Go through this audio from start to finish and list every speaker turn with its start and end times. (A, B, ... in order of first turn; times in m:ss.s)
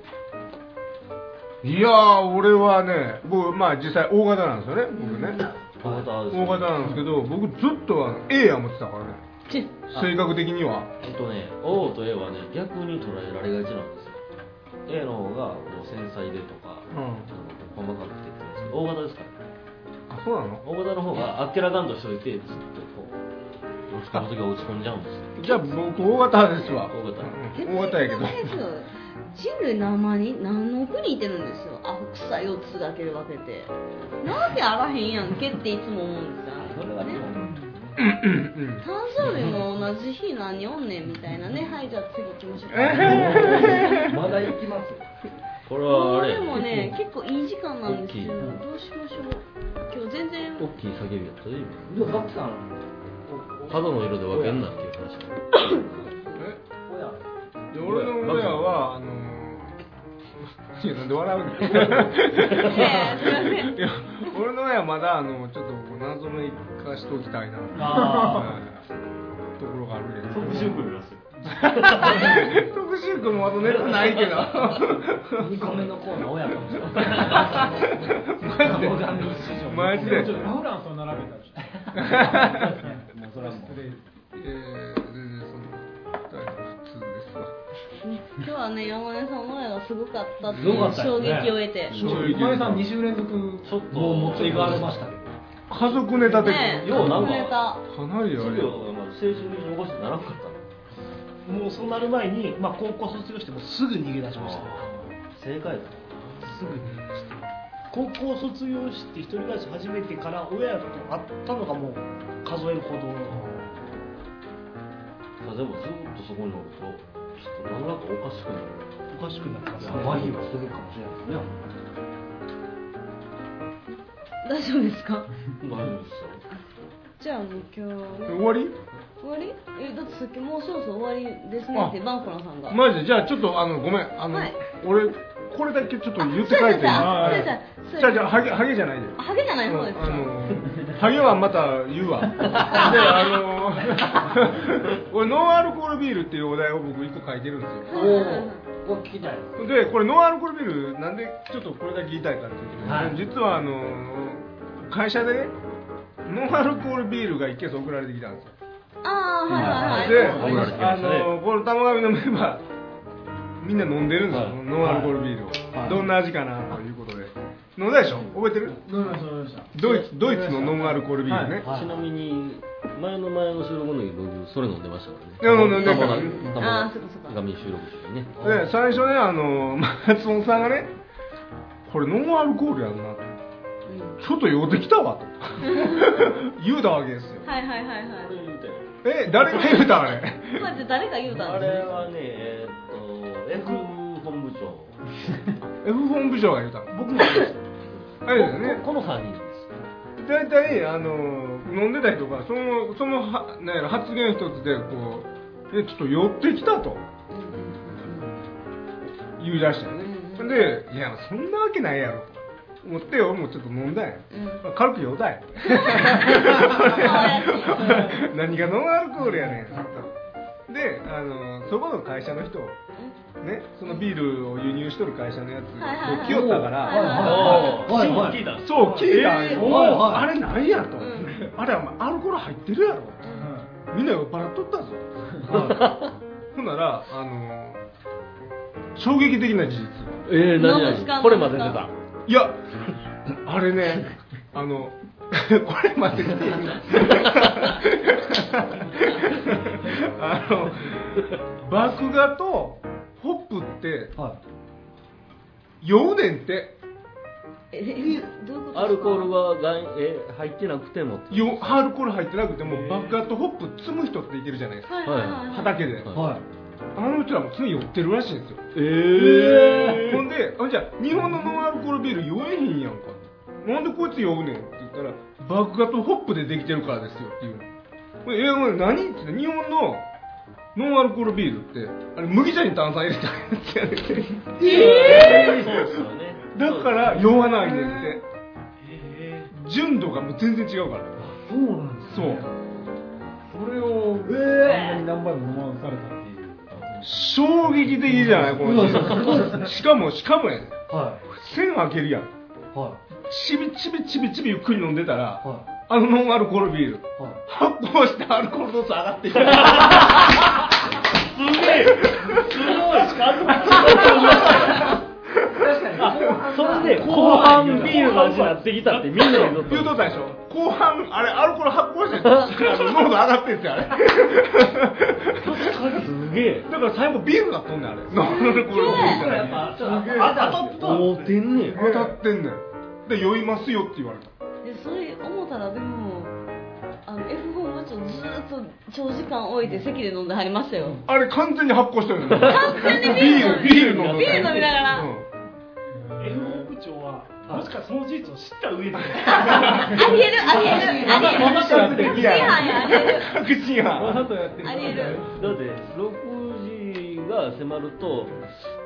0:01.6-0:05.5 A
0:04.9-0:05.4 B
0:05.8-0:07.0 C
0:05.8-0:06.1 D
0:06.3-0:09.2 A
0:09.9-0:10.9 A
0:11.0-0:14.2 C
0:14.9-0:19.4 C
0:16.9-0:17.3 A
0:20.1-0:20.6 A
0:20.6-0:23.2 C
0:23.9-0:25.6 C
0:25.4-0:28.6 A
0:26.9-0:27.3 C
0:27.5-0:37.2 B
0:36.6-0:38.0 D
0:38.0-0:38.8 A
0:38.8-0:44.0 B
0:42.7-0:44.2 A
0:43.0-0:45.1 D
0:45.7-0:47.0 C
0:45.9-0:50.7 B
0:47.8-0:48.6 C
0:50.6-0:51.9 C
0:51.9-0:54.7 D
0:53.7-0:55.5 C
0:56.3-0:56.6 A
0:56.8-0:57.3 D
0:57.7-0:59.8 A
0:57.8-0:58.7 C
1:00.7-1:08.9 A
1:01.6-1:02.1 C
1:02.6-1:03.8 B
1:07.8-1:08.6 D
1:07.8-1:08.6 E
1:09.6-1:10.8 A
1:10.3-1:12.6 C
1:11.5-1:15.9 A
1:13.6-1:15.0 C
1:15.4-1:20.5 D
1:16.9-1:20.6 A
1:19.8-1:24.0 E
1:21.7-1:23.9 D
1:21.9-1:22.8 A
1:24.3-1:27.5 A
1:28.0-1:32.0 B
1:30.5-1:31.6 D
1:31.9-1:32.9 A
1:31.9-1:34.9 E
1:33.6-1:35.0 C
1:33.9-1:35.3 D
1:35.7-1:38.8 A
1:36.3-1:37.7 C
1:36.4-1:37.8 B
1:38.3-1:40.6 C
1:41.4-1:45.0 F
1:44.4-1:46.7 C
1:46.4-1:47.2 F
1:46.8-1:47.4 A
1:47.9-1:53.5 F
1:55.4-1:58.8 C
1:59.1-2:00.3 F
1:59.8-2:00.5 C
1:59.8-2:01.7 D
2:04.4-2:05.3 B
2:05.6-2:06.4 C
2:07.2-2:08.5 B
2:08.3-2:08.8 A
2:09.2-2:12.8 B
2:12.7-2:28.2 A
2:14.3-2:14.6 B
2:16.2-2:18.5 B
2:16.9-2:17.6 E
2:19.2-2:20.4 B
2:27.9-2:28.6 B
2:27.9-2:29.6 D
2:29.6-2:35.6 A
2:32.8-2:33.2 D
2:36.2-2:38.5 A
2:39.0-2:40.7 B
2:39.5-2:42.6 A
2:39.6-2:40.7 D
2:39.6-2:41.4 C
2:43.6-2:48.8 A
2:44.3-2:44.6 C
2:44.8-2:45.2 D
2:45.7-2:46.1 D
2:48.7-2:51.6 E
2:49.7-2:51.7 A
2:51.4-2:52.0 D
2:51.7-2:58.4 C
2:55.4-2:56.6 A
2:55.7-2:57.4 B
2:58.4-3:00.9 A
3:01.9-3:03.3 A
3:03.9-3:04.2 B
3:04.2-3:07.4 A
3:05.7-3:06.2 B
3:07.4-3:08.4 B
3:08.2-3:09.0 C
3:09.0-3:10.7 A
3:09.5-3:09.8 C
3:10.5-3:12.0 B
3:11.3-3:15.6 C
3:15.8-3:17.0 A
3:16.9-3:17.6 F
3:17.9-3:19.8 C
3:18.2-3:18.8 A
3:20.2-3:27.0 A
3:27.3-3:28.3 B
3:29.4-3:40.1 A
3:30.0-3:30.7 B
3:34.3-3:34.6 B
3:35.6-3:38.2 B
3:40.7-3:42.8 A
3:43.4-3:53.2 A
3:45.8-3:47.8 B
3:46.2-3:48.5 D
3:47.2-3:49.6 C
3:48.8-3:50.1 F
3:49.5-3:50.3 D
3:51.0-3:51.4 B
3:53.2-3:53.5 B
3:53.4-3:53.7 E
3:53.9-3:55.6 A
3:55.5-3:55.9 D
3:55.5-3:56.1 C
3:56.5-3:57.8 A
3:59.0-4:00.2 A
4:00.3-4:01.9 C
4:00.6-4:01.9 B
4:02.3-4:02.6 A
4:03.3-4:14.2 A
4:15.8-4:16.8 A
4:17.7-4:19.3 B
4:18.7-4:21.8 C
4:21.3-4:26.1 A
4:22.8-4:23.0 E
4:24.9-4:25.8 B
4:25.1-4:25.5 C
4:26.1-4:26.4 D
4:26.9-4:28.7 A
4:28.7-4:30.3 C
4:29.2-4:30.0 D
4:29.5-4:37.7 A
4:38.2-4:40.0 A
4:40.8-4:48.2 A
4:44.6-4:47.6 C
4:44.7-4:45.5 B
4:48.8-4:49.5 F
4:49.5-4:51.3 A
4:51.2-4:52.5 E
4:52.1-4:52.5 A
4:52.4-4:53.2 B
4:53.5-4:57.3 E
4:54.2-4:55.0 D
4:56.7-4:57.0 C
4:57.0-5:02.3 A
4:57.8-4:58.9 E
4:58.6-4:59.7 D
5:00.9-5:01.2 D
5:02.7-5:03.0 D
5:03.2-5:10.5 A
5:05.4-5:05.7 D
5:09.4-5:10.4 C
5:11.3-5:15.0 C
5:11.6-5:12.7 A
5:11.9-5:14.9 F
5:14.5-5:14.7 A
5:15.4-5:16.3 A
5:15.5-5:18.1 D
5:16.0-5:20.1 C
5:16.7-5:19.5 F
5:19.4-5:26.0 A
5:22.2-5:23.1 C
5:25.4-5:26.1 F
5:25.7-5:26.7 C
5:26.7-5:29.8 A
5:28.1-5:29.4 B
5:28.7-5:31.1 D
5:29.8-5:31.4 F
5:30.2-5:32.0 C
5:31.6-5:34.3 A
5:34.6-5:36.4 B
5:37.0-5:41.0 B
5:41.0-5:45.3 A
5:42.4-5:45.1 B
5:42.4-5:44.8 C
5:45.9-5:46.7 E
5:46.2-5:50.2 F
5:49.3-5:53.4 B
5:50.4-5:53.0 E
5:50.4-5:51.7 D
5:50.9-5:55.1 A
5:53.9-5:55.6 E
5:54.6-5:55.2 B
5:55.3-5:58.7 C